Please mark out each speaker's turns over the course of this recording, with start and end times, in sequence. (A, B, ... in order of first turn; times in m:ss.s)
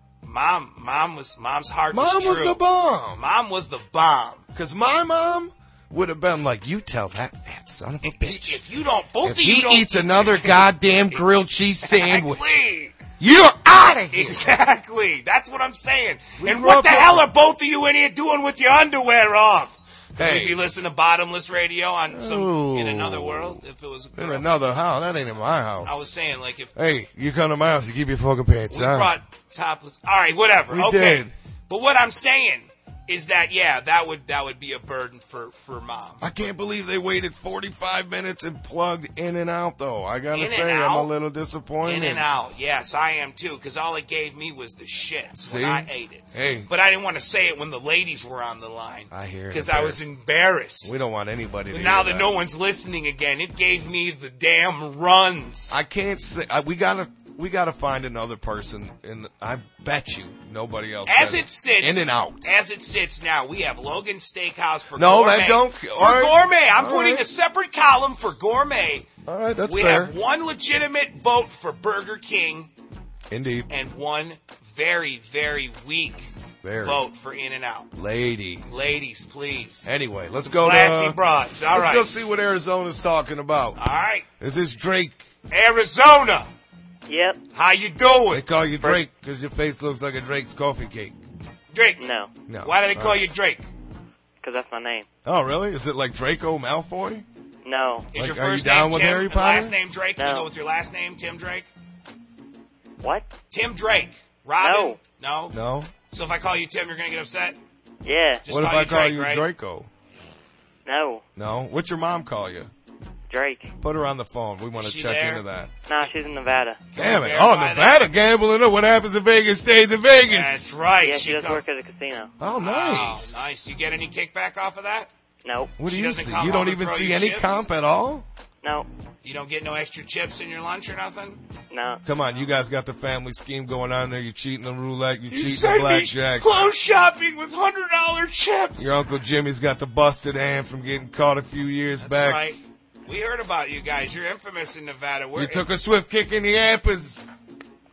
0:00.2-0:02.6 A
0:01.9-0:03.2 B
0:03.1-0:04.4 A
0:04.5-0:08.6 B
0:08.0-0:13.0 A
0:09.2-0:12.5 B
0:13.2-0:14.5 B
0:14.1-0:24.5 A
0:16.4-0:17.3 B
0:20.2-0:20.6 B
0:22.1-0:23.6 B
0:24.1-0:26.1 B
0:25.8-0:26.7 A
0:26.7-0:29.1 B
0:28.7-0:36.3 A
0:30.7-0:31.3 B
0:36.2-0:42.2 B
0:40.3-0:41.1 A
0:41.8-0:51.0 A
0:45.4-0:46.7 B
0:49.1-0:50.0 B
0:50.8-0:52.3 B
0:51.7-0:55.8 A
0:55.7-1:02.5 B
1:01.1-1:09.1 A
1:05.0-1:07.2 B
1:09.2-1:10.1 B
1:09.6-1:12.7 A
1:13.3-1:13.7 B
1:13.7-1:16.3 A
1:16.6-1:17.0 B
1:16.8-1:17.9 A
1:17.9-1:18.7 B
1:18.6-1:19.9 A
1:19.8-1:21.2 B
1:20.4-1:22.1 A
1:21.7-1:23.8 B
1:23.8-1:24.3 A
1:24.4-1:25.3 B
1:25.5-1:26.5 A
1:27.1-1:27.4 C
1:27.5-1:28.4 A
1:28.3-1:31.2 B
1:31.7-1:32.0 A
1:32.0-1:32.3 C
1:32.5-1:33.2 B
1:32.6-1:33.7 A
1:34.4-1:35.1 C
1:35.2-1:37.2 B
1:37.6-1:38.1 C
1:38.1-1:41.7 A
1:38.1-1:39.8 B
1:40.2-1:40.5 C
1:43.0-1:43.3 C
1:43.5-1:45.6 A
1:44.6-1:45.0 C
1:45.5-1:45.9 B
1:46.1-1:47.6 A
1:48.0-1:48.4 C
1:48.4-1:49.4 A
1:48.5-1:49.9 B
1:50.8-1:51.2 C
1:51.4-1:52.7 B
1:53.3-1:53.7 C
1:53.8-1:55.7 B
1:54.8-1:55.4 A
1:55.9-1:56.8 C
1:56.9-1:58.1 A
1:57.0-2:00.8 B
2:00.3-2:01.6 A
2:01.0-2:02.3 C
2:02.4-2:03.4 B
2:02.5-2:05.1 A
2:05.4-2:05.8 C
2:05.8-2:08.2 B
2:05.8-2:07.6 A
2:08.6-2:08.9 C
2:09.2-2:11.4 A
2:11.7-2:12.0 C
2:12.0-2:16.7 B
2:15.3-2:19.0 A
2:18.8-2:22.4 B
2:22.0-2:25.6 A
2:25.3-2:27.4 B